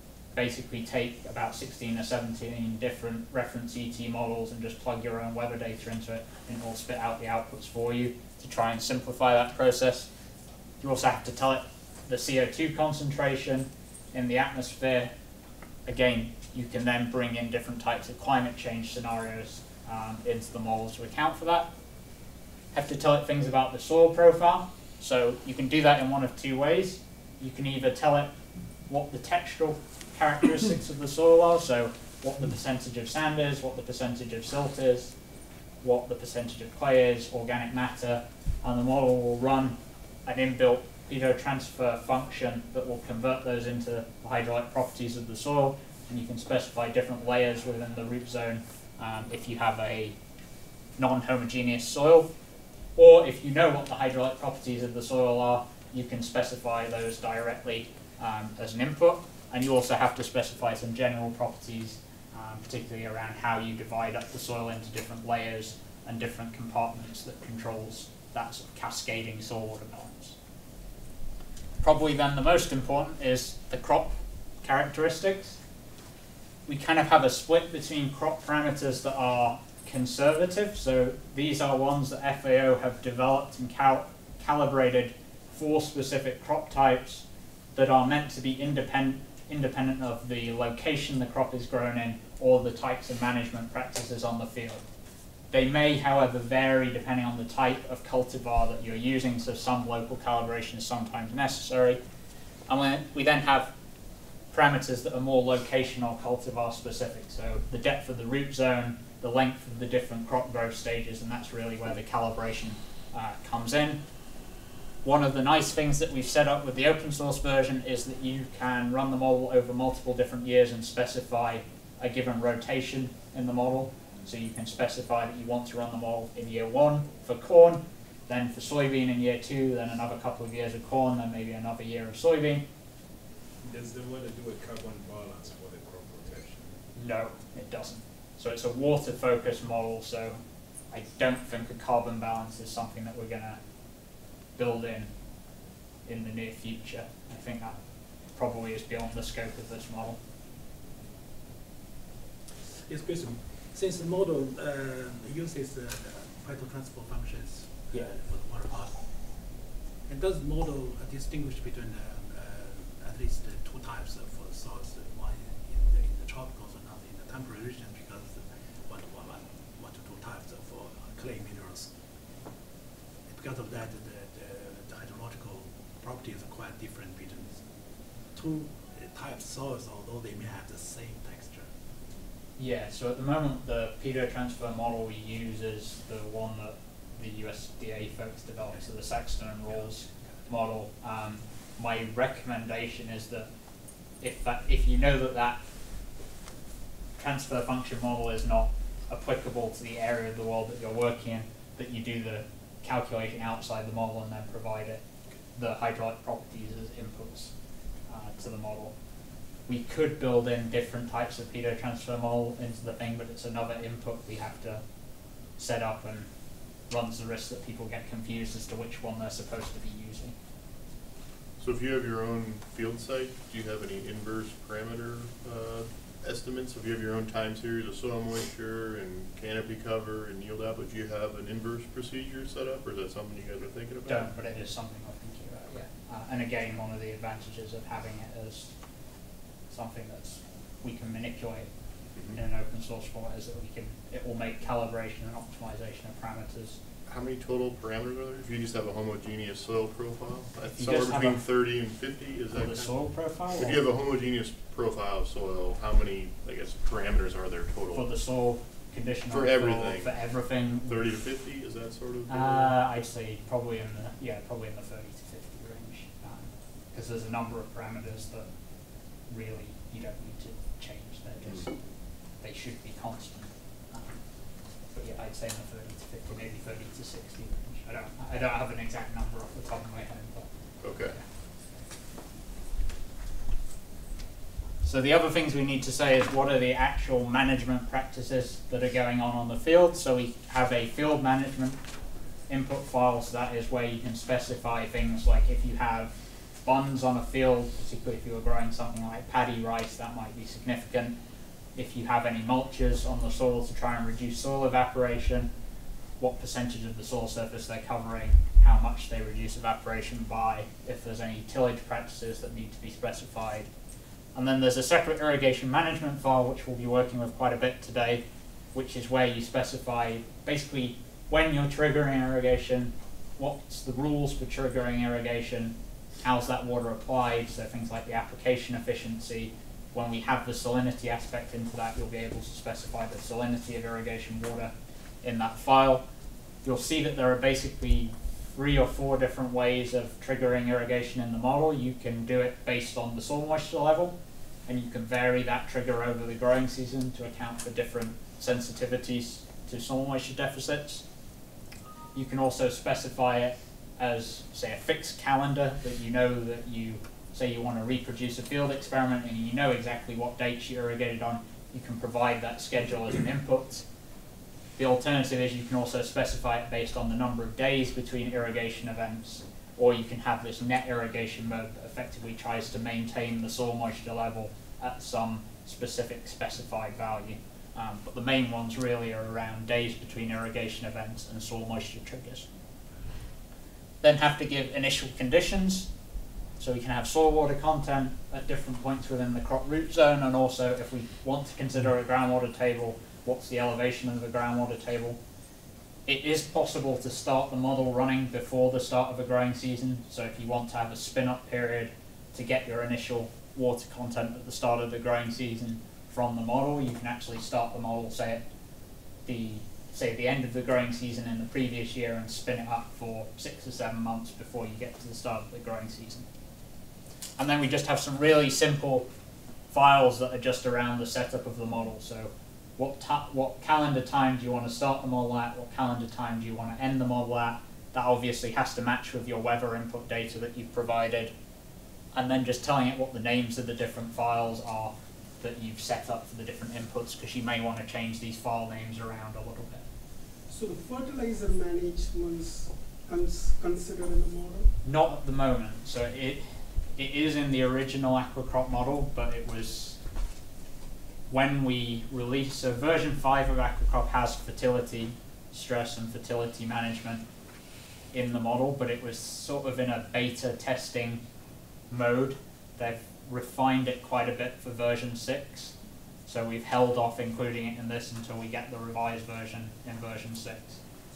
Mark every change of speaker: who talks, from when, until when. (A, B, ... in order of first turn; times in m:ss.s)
0:00.3-0:10.1 A
0:10.8-0:15.1 A
0:15.8-0:21.7 A
0:22.7-0:28.3 A
0:28.9-0:35.1 A
0:35.8-0:50.2 A
0:51.0-0:52.3 A
0:53.0-1:10.4 A
1:11.8-1:15.6 A
1:16.7-1:34.8 A
1:35.5-1:42.0 A
1:42.7-1:43.7 A
1:44.5-1:54.0 A
1:55.0-2:12.6 A
2:13.6-2:16.7 B
2:17.0-2:20.4 A
2:20.9-2:23.6 A
2:24.6-2:25.1 A
2:26.0-2:27.8 A
2:28.3-2:30.2 A
2:32.9-2:39.0 C
2:40.1-2:51.9 C
2:53.3-2:57.6 C
2:58.3-3:01.7 C
3:02.6-3:13.5 A
3:14.2-3:15.6 A
3:17.2-3:25.0 A
3:25.5-3:27.5 A
3:28.1-3:28.9 A
3:29.7-3:34.8 A
3:35.6-3:36.3 A
3:36.9-3:40.3 A
3:41.6-3:54.3 D
3:54.1-3:58.7 A
3:59.7-4:01.7 A
4:02.3-4:06.8 A
4:07.1-4:13.0 D
4:10.7-4:11.4 A
4:12.5-4:13.8 A
4:13.6-4:18.1 D
4:17.9-4:21.0 A
4:19.3-4:20.2 D
4:20.8-4:22.7 D
4:22.3-4:28.5 A
4:29.3-4:31.7 A
4:32.4-4:34.2 A
4:34.9-4:40.5 A
4:40.8-4:41.2 D
4:44.8-4:51.8 A
4:52.5-5:01.2 A
5:01.7-5:05.5 A
5:06.2-5:13.7 A
5:14.3-5:36.0 A
5:36.6-5:44.2 A
5:44.7-5:51.0 A
5:52.1-6:03.8 A
6:04.8-6:22.5 A
6:24.0-6:25.9 A
6:26.6-6:35.2 A
6:36.0-6:48.4 A
6:49.2-6:56.2 A
6:57.4-6:59.1 A
6:59.7-7:11.3 A
7:12.1-7:19.8 A
7:20.5-7:24.7 E
7:24.8-7:30.0 A
7:31.3-7:37.2 A
7:38.1-7:41.2 A
7:41.9-7:45.7 A
7:46.3-7:50.8 A